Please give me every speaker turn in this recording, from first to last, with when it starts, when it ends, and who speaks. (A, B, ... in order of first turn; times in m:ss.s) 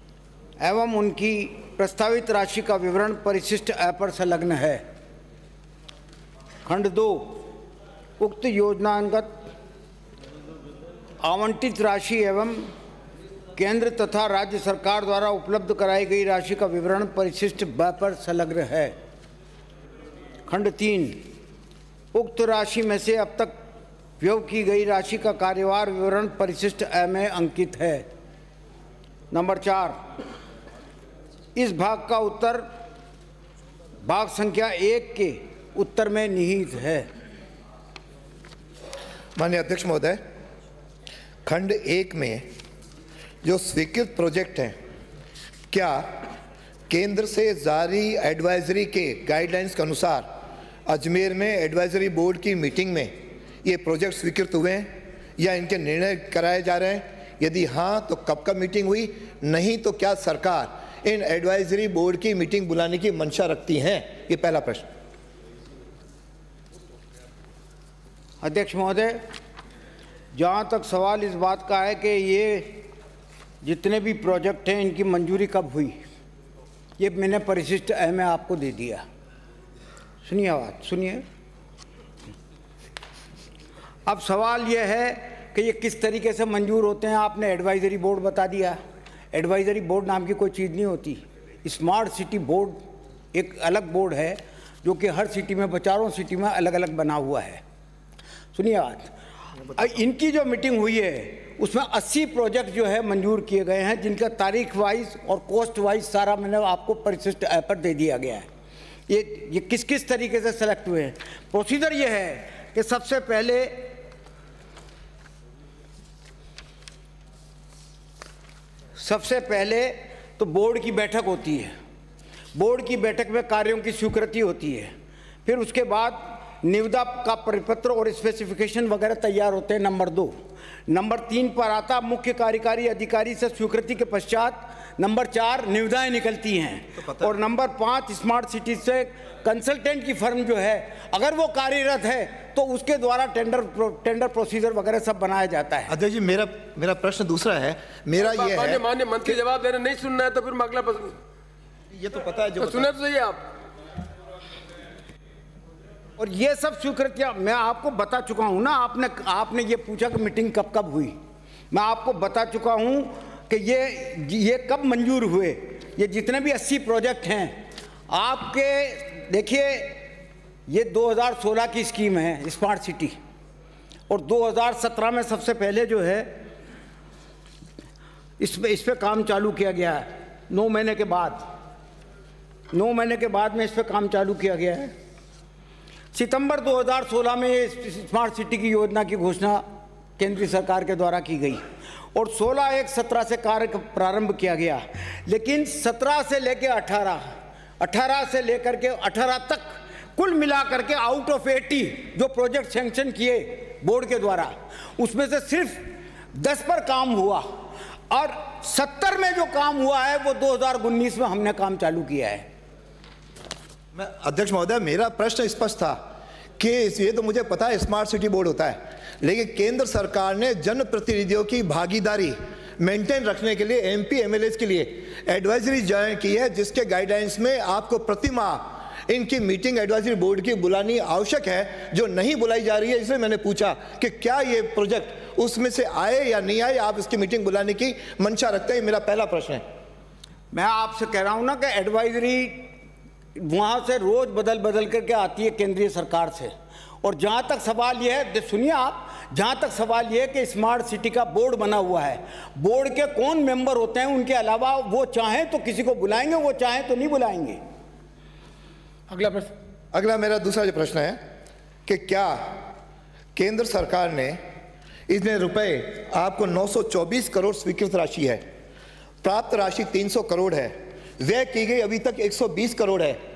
0:00.6-0:04.8 A
0:06.7-0:07.5 A
0:08.2-0:09.3 A
0:11.2-0:12.7 A
0:13.6-0:19.0 A
0:20.5-0:21.3 A
0:22.1-0:23.6 A
0:24.2-0:28.0 A
0:29.3-0:30.0 A
0:31.6-0:32.7 A
0:34.0-0:37.1 A
0:39.4-0:40.2 B
0:41.4-0:42.5 B
0:43.4-0:44.8 B
0:45.7-0:46.3 B
0:46.9-0:50.3 B
0:50.9-1:04.8 B
1:08.4-1:09.3 A
1:10.3-1:12.9 A
1:13.6-1:16.0 A
1:17.0-1:19.0 A
1:20.2-1:21.2 A
1:24.1-1:28.8 A
1:29.3-1:32.8 A
1:33.3-1:37.6 A
1:38.5-1:48.5 A
1:49.1-1:53.9 A
1:59.0-2:01.7 A
2:02.5-2:04.9 A
2:05.5-2:25.9 A
2:17.0-2:17.3 B
2:25.9-2:29.4 B
2:28.4-2:31.1 C
2:32.0-2:33.0 B
2:32.6-2:33.4 C
2:36.2-2:41.2 A
2:41.7-2:50.1 A
2:50.7-2:53.2 A
2:54.1-2:56.5 A
2:58.4-3:01.5 A
3:02.7-3:04.9 A
3:06.1-3:09.7 A
3:10.2-3:32.5 A
3:33.9-3:36.0 B
3:36.6-3:59.6 B
4:00.5-4:02.8 A
4:03.4-4:17.6 A
4:19.1-4:19.5 C
4:19.9-4:21.2 B
4:21.9-4:22.6 B
4:23.4-4:24.4 B
4:25.1-4:28.4 B
4:29.2-4:33.2 B